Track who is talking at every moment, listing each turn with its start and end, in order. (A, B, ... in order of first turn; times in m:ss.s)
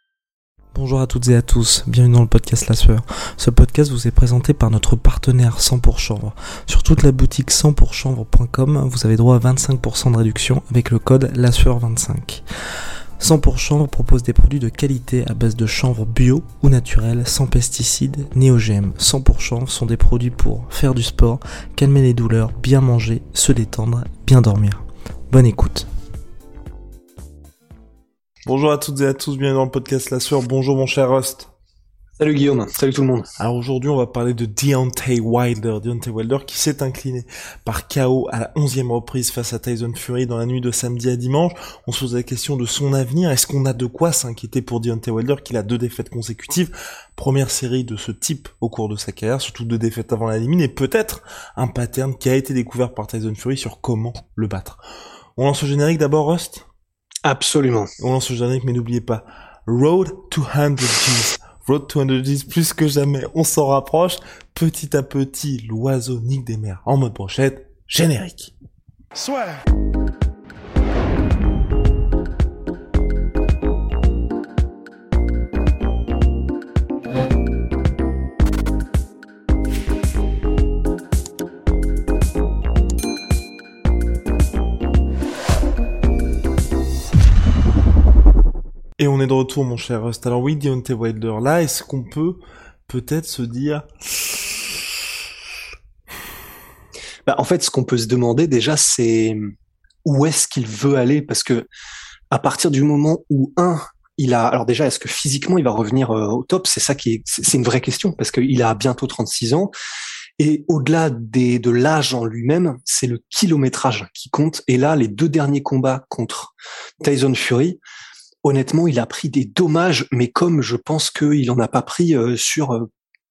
0:00.7-0:12.4 A
0:13.2-0:25.9 A
0:28.4-0:31.5 A
0:32.2-0:33.2 B
0:33.4-0:54.8 A
0:55.4-0:56.6 A
0:57.2-0:57.9 B
0:58.0-1:08.5 A
1:29.0-1:34.4 A
1:37.2-1:39.4 B
1:40.0-1:41.7 B
1:42.3-1:49.7 B
1:50.4-1:57.8 B
1:58.4-2:02.8 B